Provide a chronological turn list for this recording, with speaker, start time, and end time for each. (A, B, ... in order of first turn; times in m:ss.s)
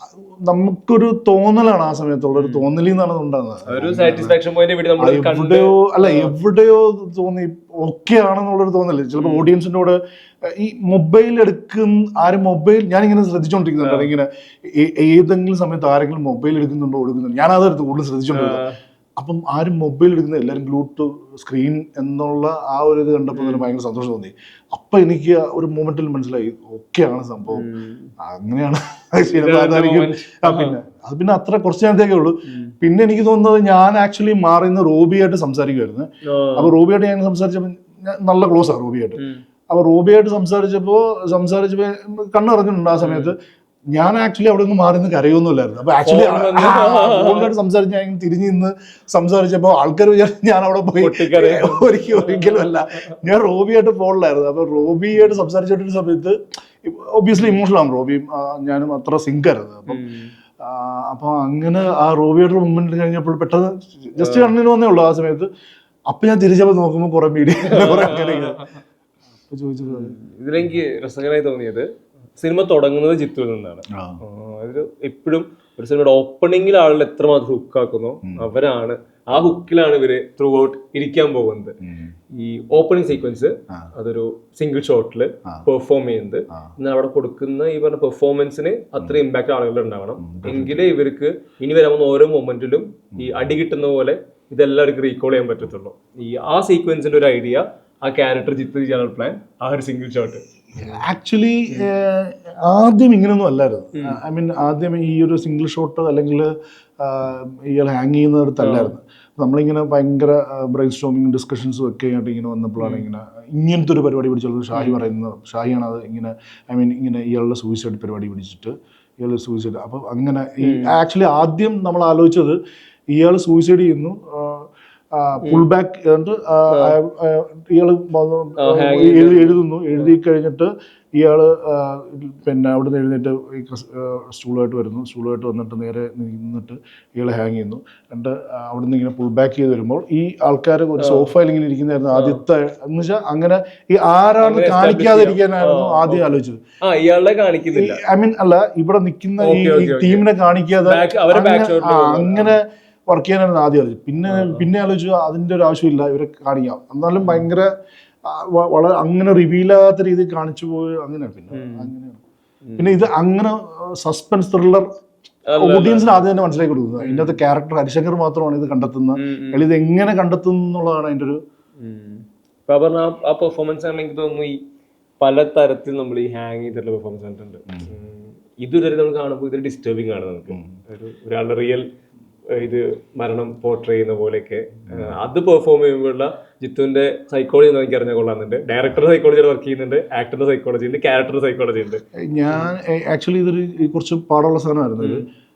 0:00.4-0:04.4 A
0:02.4-0:02.7 B
0:03.7-0:06.3 B
0:05.0-0:18.6 A
0:09.2-0:09.5 B
0:13.8-0:14.1 B
0:18.3-0:18.8 B
0:19.2-0:27.7 A
0:23.3-0:23.6 B
0:27.5-0:28.1 B
0:28.2-0:43.4 A
0:29.3-0:30.8 B
0:32.5-0:32.7 B
0:36.2-0:36.7 B
0:39.2-0:39.4 B
0:43.0-0:43.3 B
0:43.9-1:00.0 A
0:46.0-0:47.5 B
0:51.0-0:52.7 B
0:59.9-1:00.3 B
1:00.6-1:05.5 A
1:04.2-1:04.5 B
1:06.1-1:08.7 A
1:07.6-1:08.7 B
1:09.5-1:10.2 A
1:09.9-1:21.8 B
1:13.9-1:14.2 A
1:21.8-1:22.1 A
1:22.3-1:41.0 B
1:30.2-1:30.9 A
1:40.8-2:02.6 A
1:48.6-1:48.9 B
1:52.8-1:53.0 B
1:54.8-1:55.0 B
2:00.6-2:00.9 B
2:03.1-2:26.6 A
2:06.7-2:07.0 B
2:08.6-2:10.0 B
2:21.0-2:21.3 B
2:22.1-2:22.4 B
2:24.4-2:28.0 B
2:27.7-2:37.7 A
2:29.4-2:30.3 B
2:30.8-2:32.6 B
2:34.3-2:34.6 B
2:38.2-2:42.2 A
2:41.5-2:41.9 B
2:42.7-2:43.0 B
2:42.8-2:44.9 A
2:45.5-2:46.2 B
2:45.5-2:51.4 A
2:47.0-2:47.4 B
2:49.2-2:49.6 B
2:51.8-2:54.6 B
2:55.2-3:01.9 B
3:00.5-3:00.8 A
3:02.5-3:12.7 B
3:04.9-3:05.2 A
3:12.2-3:15.3 A
3:15.0-3:15.3 B